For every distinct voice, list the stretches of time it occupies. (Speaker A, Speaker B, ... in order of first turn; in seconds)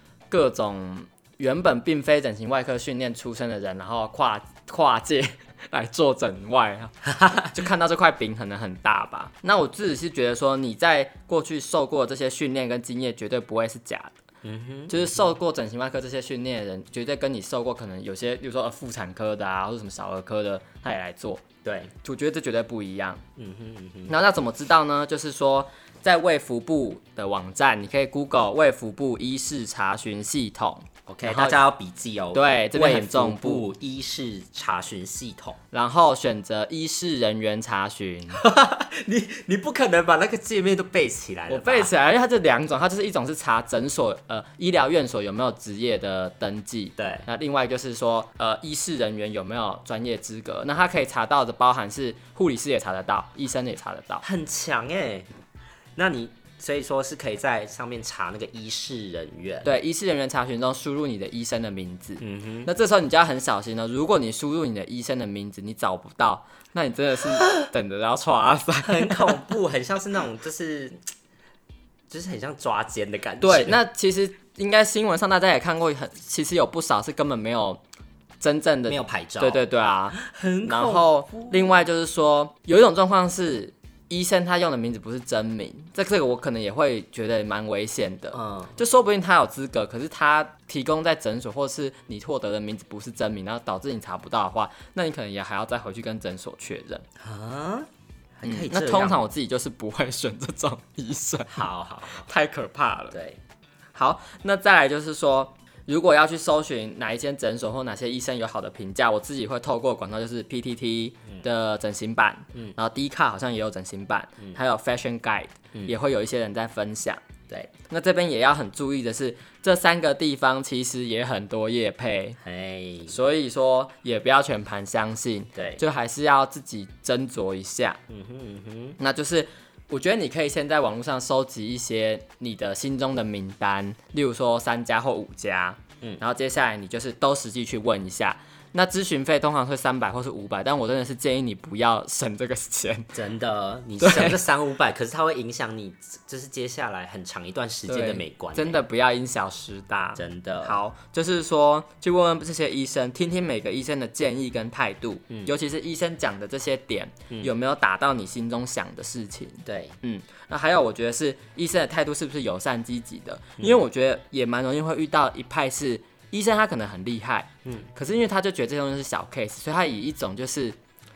Speaker A: 0.3-14.2, 14.9-21.4, 22.0-23.2, 24.1-31.6, 32.3-33.7, 35.7-38.4, 41.5-54.2, 59.6-69.5, 73.4-77.8, 78.4-97.0, 98.4-101.7, 102.2-103.2, 104.0-117.2, 117.9-122.4, 123.1-128.0, 129.0-143.1, 144.0-144.4, 147.9-170.8
Speaker B: 7.1-7.5, 14.4-15.3, 21.6-21.9, 23.4-24.1, 31.1-35.6, 38.3-41.9, 47.0-47.3, 54.2-55.3, 56.0-59.7, 62.2-62.7, 68.8-71.0, 72.1-73.8, 78.9-79.6, 80.2-81.6, 88.3-88.8, 97.2-99.2, 101.5-102.3, 103.1-103.4, 122.4-123.2, 125.5-125.8, 128.1-129.0, 143.1-148.8, 150.2-150.8, 159.7-160.0, 163.6-163.8